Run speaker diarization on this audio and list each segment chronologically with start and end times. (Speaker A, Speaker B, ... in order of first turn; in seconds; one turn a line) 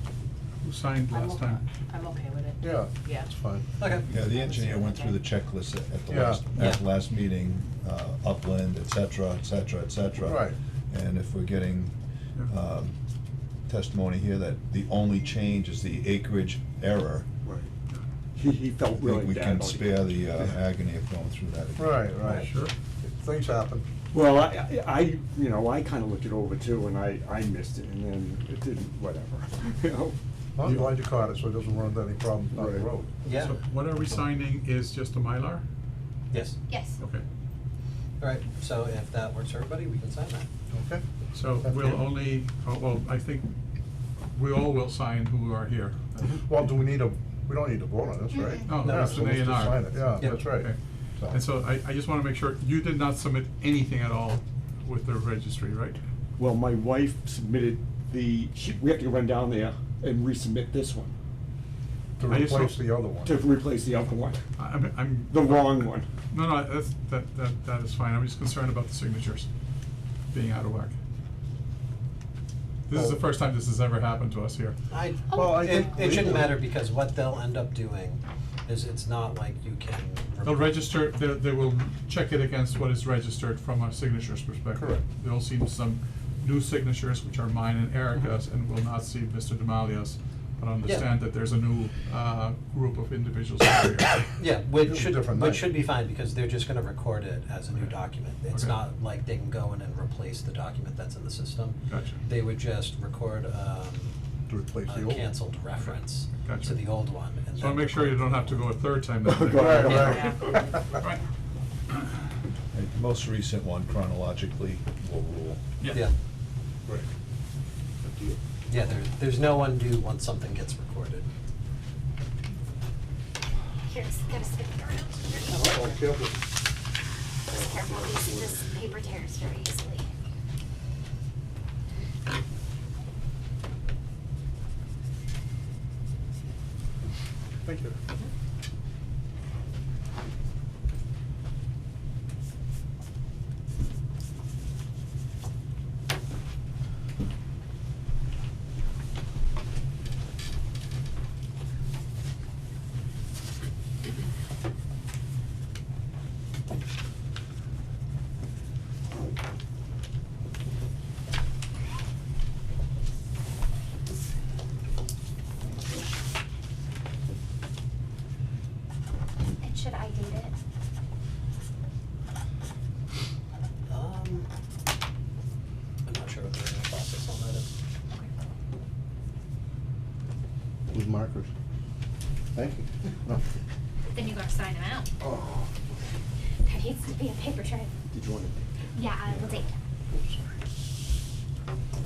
Speaker A: 0.6-1.6
Speaker B: 1.1-3.3
Speaker C: 2.6-3.7
Speaker D: 3.8-4.1
Speaker E: 4.1-11.9
Speaker B: 4.3-5.2
Speaker C: 6.1-6.4
Speaker D: 6.5-6.8
Speaker C: 10.3-10.6
Speaker E: 12.4-13.0
Speaker E: 13.7-17.2
Speaker F: 18.3-20.5
Speaker E: 18.9-22.5
Speaker C: 21.8-22.4
Speaker A: 22.2-22.7
Speaker C: 23.0-23.9
Speaker F: 24.1-30.1
Speaker C: 30.6-33.1
Speaker F: 32.5-32.9
Speaker D: 33.2-33.5
Speaker A: 33.3-35.6
Speaker D: 36.3-36.6
Speaker G: 36.7-37.0
Speaker A: 37.0-37.2
Speaker D: 38.2-40.5
Speaker C: 40.7-41.0
Speaker A: 41.3-43.5
Speaker C: 41.6-42.0
Speaker A: 44.3-47.0
Speaker C: 46.5-51.4
Speaker G: 48.3-48.8
Speaker A: 48.6-50.8
Speaker D: 48.7-49.4
Speaker D: 50.0-50.5
Speaker A: 51.3-56.0
Speaker F: 56.4-61.1
Speaker C: 62.2-63.4
Speaker A: 62.2-62.9
Speaker F: 63.2-64.4
Speaker A: 64.6-69.5
Speaker F: 65.3-66.1
Speaker A: 70.3-70.9
Speaker A: 72.9-74.8
Speaker D: 74.9-80.8
Speaker C: 75.3-76.5
Speaker A: 80.4-94.3
Speaker C: 84.8-85.0
Speaker D: 90.8-91.1
Speaker D: 94.4-104.2
Speaker C: 94.9-95.7
Speaker A: 98.5-98.8
Speaker A: 101.9-102.2
Speaker C: 104.5-105.3
Speaker D: 104.8-108.6
Speaker A: 105.8-106.8
Speaker A: 107.6-111.2
Speaker F: 109.2-110.3
Speaker C: 109.6-110.2
Speaker B: 110.1-110.5
Speaker E: 112.7-115.6
Speaker C: 118.0-118.4
Speaker D: 118.7-121.3
Speaker G: 123.9-125.8
Speaker C: 125.7-126.3
Speaker F: 127.5-128.7
Speaker G: 127.5-130.1
Speaker G: 169.6-170.5
Speaker D: 173.9-174.5
Speaker D: 176.0-177.7
Speaker C: 180.9-181.5
Speaker C: 182.5-183.4
Speaker G: 184.1-185.1
Speaker F: 185.2-185.9
Speaker G: 186.6-187.9
Speaker F: 188.1-188.7
Speaker G: 188.9-189.7
Speaker F: 189.2-189.6
Speaker C: 190.1-190.4